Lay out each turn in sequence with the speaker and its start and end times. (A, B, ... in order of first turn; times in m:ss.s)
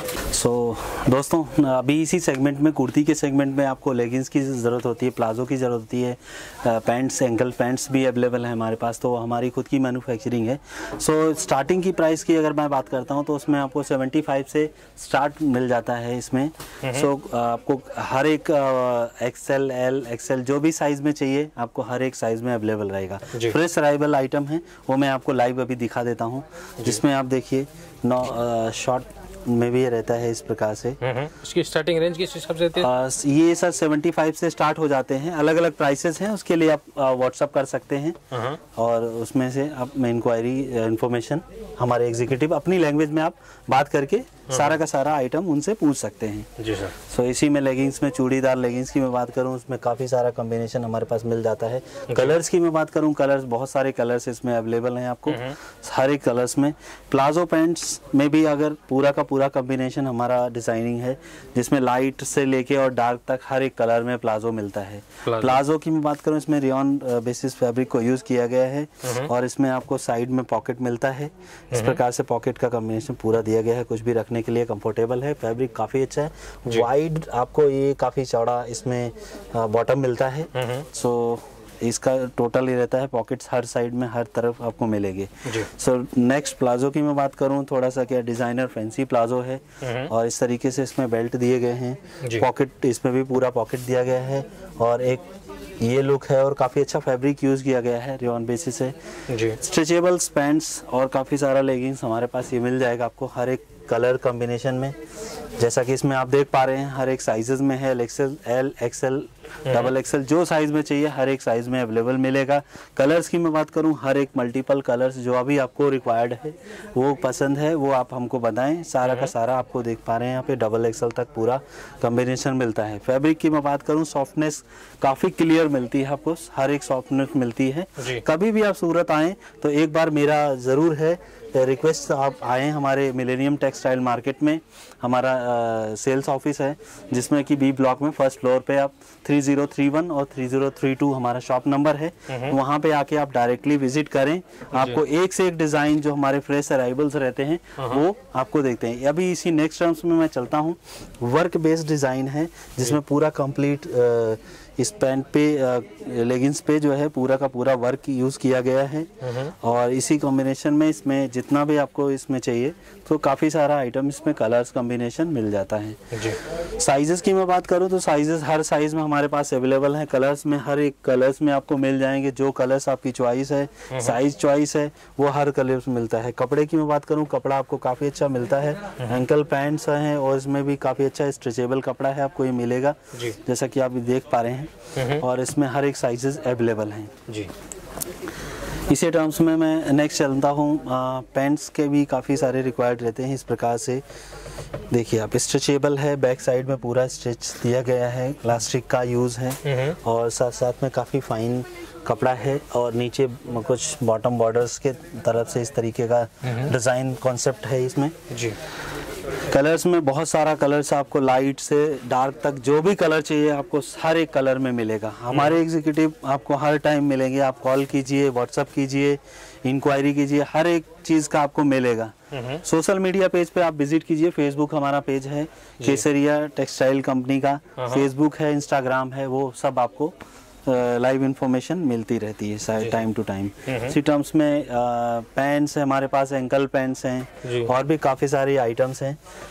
0:00.3-0:31.0 A
0:16.8-0:17.1 B
0:31.0-0:32.9 B
0:32.8-0:38.2 A
0:38.3-0:38.6 B
0:38.7-1:35.2 A
0:44.5-0:44.8 B
0:46.6-0:46.9 B
0:52.1-0:52.4 B
0:55.3-0:55.6 B
1:05.2-1:05.6 B
1:09.0-1:09.3 B
1:11.7-1:12.0 B
1:20.5-1:20.8 B
1:29.8-1:30.1 B
1:32.2-1:32.5 B
1:35.8-1:38.9 A
1:39.3-1:39.6 B
1:39.5-1:44.9 A
1:45.6-3:07.1 A
1:49.7-1:49.9 B
1:59.0-1:59.3 B
2:08.0-2:08.2 B
2:22.3-2:22.6 B
2:24.7-2:25.0 B
2:27.8-2:28.0 B
2:39.2-2:39.5 B
2:46.1-2:46.4 B
2:53.9-2:54.2 B
3:04.9-3:05.2 B
3:07.3-3:07.5 B
3:08.9-3:14.0 A
3:14.9-3:28.2 A
3:19.6-3:20.0 B
3:26.4-3:26.7 B
3:28.3-3:28.6 B
3:29.5-3:50.1 A
3:35.3-3:35.6 B
3:42.3-3:42.6 B
3:47.8-3:48.1 B
3:50.6-3:59.2 A
3:52.8-3:53.0 B
3:53.6-3:54.0 B
3:57.4-3:57.7 B